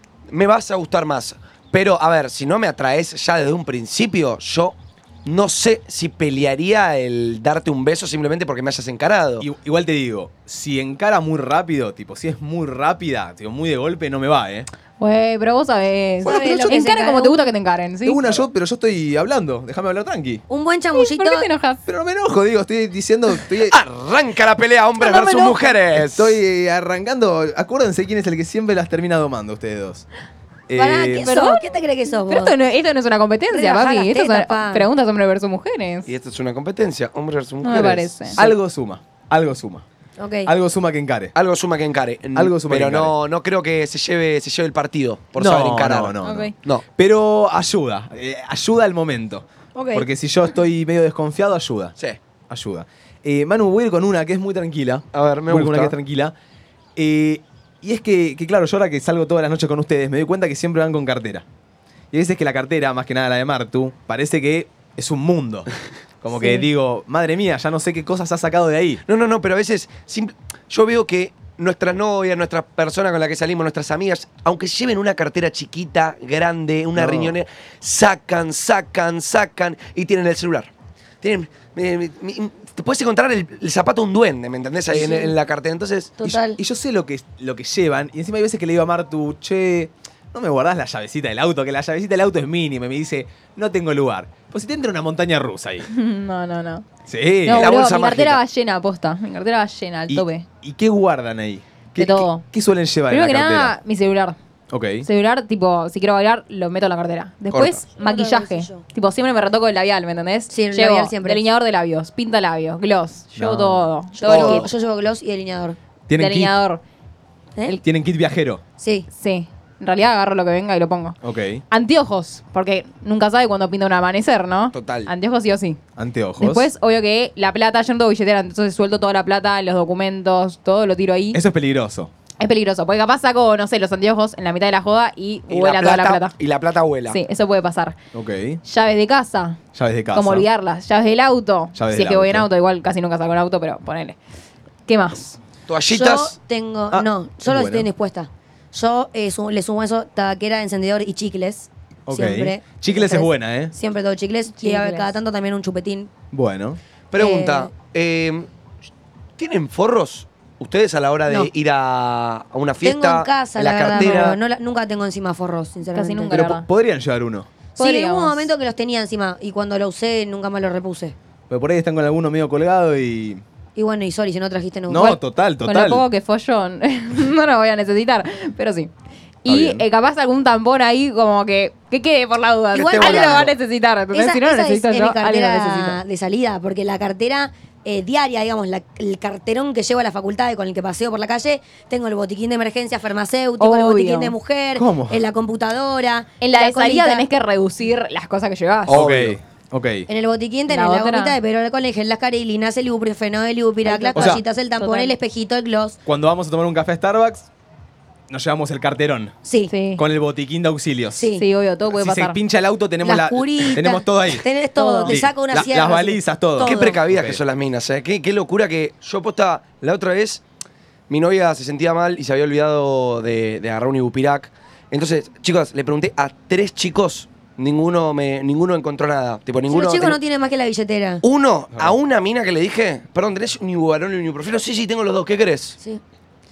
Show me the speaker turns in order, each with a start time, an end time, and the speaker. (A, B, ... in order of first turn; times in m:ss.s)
0:00.3-0:09.5 A
0:09.4-0:14.7 B
0:15.0-0:18.2 C
0:16.2-0:17.5 D
0:16.2-0:16.9 B
0:18.0-0:20.4 B
0:20.5-0:21.5 D
0:20.9-0:21.8 C
0:21.9-0:23.8 B
0:23.7-0:26.4 A
0:25.0-0:25.7 C
0:25.9-0:30.0 B
0:30.7-0:31.3 B
0:30.8-0:32.6 D
0:31.2-0:31.6 C
0:32.3-0:36.1 C
0:33.5-0:34.9 D
0:36.1-0:38.5 A
0:37.6-0:38.4 C
0:38.4-0:39.8 B
0:40.2-0:40.5 D
0:40.5-0:41.3 B
0:41.4-0:46.8 A
0:42.4-0:43.2 B
0:45.4-0:52.0 B
0:46.2-0:46.5 C
0:49.8-0:50.1 D
0:52.5-0:56.4 B
0:55.1-0:56.0 A
0:57.0-1:01.5 B
1:02.1-1:05.7 B
1:06.2-1:09.0 B
1:09.1-1:20.7 A
1:17.0-1:17.4 B
1:21.2-1:26.2 A
1:24.9-1:25.3 D
1:26.2-1:26.6 D
1:26.2-1:35.9 B
1:35.9-1:36.9 C
1:37.1-1:37.7 B
1:37.4-1:40.5 C
1:37.5-1:38.4 A
1:40.1-1:43.8 B
1:42.0-1:42.4 C
1:43.1-1:44.4 C
1:44.7-1:45.1 B
1:45.0-1:54.7 C
1:47.5-1:47.8 A
1:48.0-1:48.8 D
1:50.5-1:51.4 D
1:53.4-1:53.9 B
1:54.2-1:55.8 D
1:54.3-1:54.7 A
1:56.1-1:56.5 B
1:56.2-1:56.8 C
1:57.8-1:58.6 B
1:58.8-1:59.1 D
1:59.2-2:01.2 C
2:01.2-2:01.6 B
2:01.7-2:05.8 C
2:04.7-2:05.1 A
2:06.0-2:06.7 B
2:06.4-2:11.4 C
2:11.3-2:12.1 B
2:12.4-2:16.3 C
2:15.5-2:17.2 A
2:17.1-2:18.0 C
2:18.1-2:18.6 B
2:18.6-2:19.6 C
2:19.8-2:20.5 B
2:20.1-2:24.2 C
2:21.8-2:22.5 B
2:24.9-2:25.4 C
2:25.7-2:26.4 A
2:25.9-2:36.1 D
2:26.9-2:27.9 B
2:32.1-2:33.7 B
2:34.5-2:35.2 C
2:36.3-2:36.8 B
2:37.1-2:38.5 A
2:37.2-2:37.7 D
2:39.4-2:44.4 A
2:42.8-2:46.4 D
2:45.9-2:46.6 C
2:46.3-2:47.5 B
2:47.8-2:48.5 C
2:47.8-2:51.2 D
2:51.5-2:53.4 B
2:53.8-2:55.2 D
2:54.9-2:56.0 B
2:55.7-2:58.9 C
2:59.4-3:06.0 C
2:59.5-2:59.8 B
3:02.7-3:03.6 D
3:02.8-3:03.5 A
3:04.1-3:17.3 D
3:13.6-3:14.4 C
3:14.8-3:15.2 B
3:16.4-3:19.0 C
3:18.9-3:20.1 B
3:18.9-3:19.4 A
3:20.1-3:26.0 D
3:20.7-3:21.4 C
3:23.9-3:25.2 C
3:24.1-3:24.4 B
3:26.1-3:27.5 B
3:28.3-3:29.3 B
3:29.4-3:29.7 D
3:29.7-3:30.0 C
3:30.0-3:31.3 B
3:31.2-3:31.5 D
3:31.4-3:32.4 C
3:31.9-3:34.4 B
3:33.0-3:37.0 D
3:34.8-3:35.2 C
3:35.1-3:37.4 B
3:36.6-3:40.4 A
3:41.1-3:50.2 A
3:49.7-3:51.2 D
3:51.2-3:55.8 A